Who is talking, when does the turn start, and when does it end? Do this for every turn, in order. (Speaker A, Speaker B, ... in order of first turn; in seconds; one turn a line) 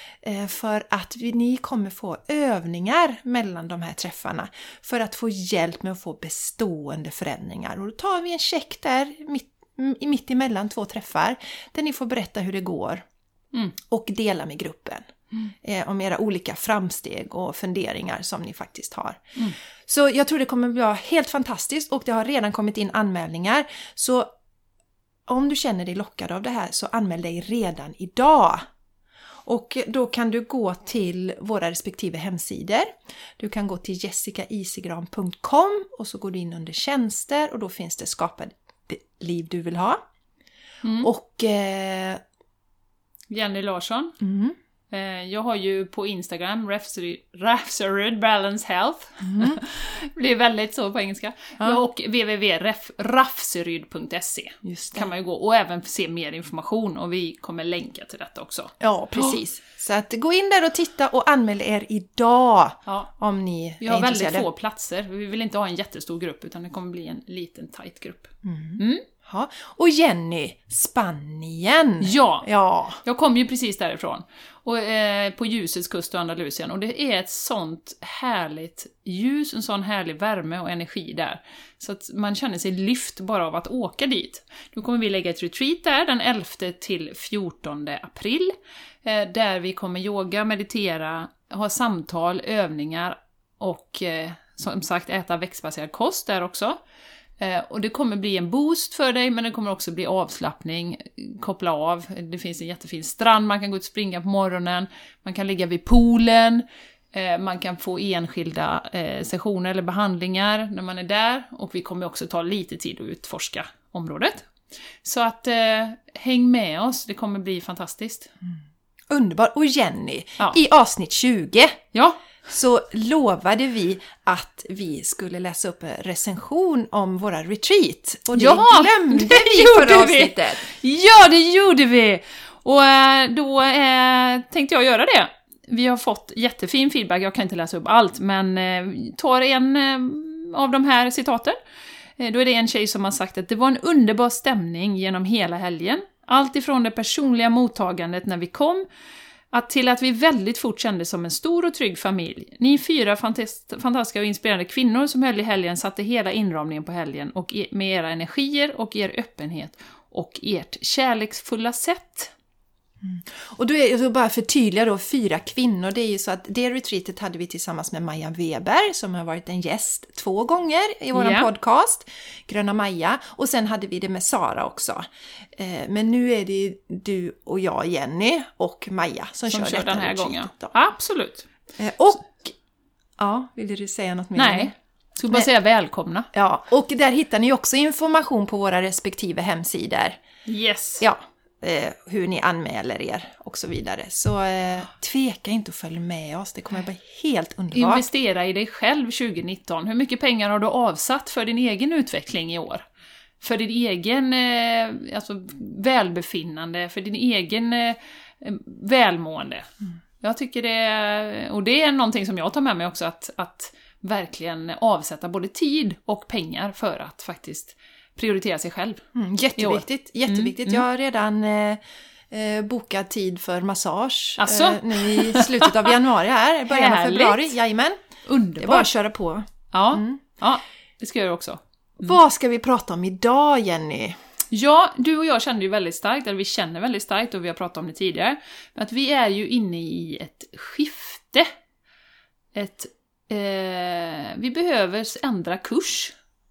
Speaker A: 0.2-13.0
Speaker A: 13.8-24.3
Speaker A: 25.3-28.6
Speaker A: 29.4-40.0
Speaker B: 40.8-41.1
Speaker A: 41.0-42.2
Speaker B: 43.3-44.2
Speaker A: 44.2-44.5
Speaker B: 44.9-59.4
Speaker A: 49.2-49.6
Speaker A: 54.6-55.1
Speaker A: 58.8-64.5
Speaker B: 63.8-69.0
Speaker A: 68.4-73.0
Speaker B: 72.0-72.5
Speaker B: 73.0-96.8
Speaker B: 97.4-114.5
Speaker B: 115.0-118.3
Speaker A: 119.1-121.8
Speaker B: 121.9-122.2
Speaker A: 122.4-130.7
Speaker B: 128.3-141.6
Speaker B: 142.2-148.8
Speaker B: 149.5-162.3
Speaker A: 163.0-180.7
Speaker B: 171.1-171.5
Speaker B: 179.5-181.5
Speaker A: 181.8-182.5
Speaker A: 183.2-184.7
Speaker B: 184.3-186.3
Speaker A: 186.3-190.2
Speaker B: 190.4-191.1
Speaker A: 191.0-198.1
Speaker B: 197.7-202.8
Speaker B: 203.4-209.7
Speaker B: 210.2-219.0
Speaker A: 219.1-228.0
Speaker B: 219.6-220.8
Speaker B: 224.4-225.9
Speaker B: 226.7-227.5
Speaker B: 228.2-228.9
Speaker A: 228.6-230.2
Speaker B: 229.7-232.1
Speaker A: 232.0-234.2
Speaker B: 234.5-241.5
Speaker B: 242.5-246.2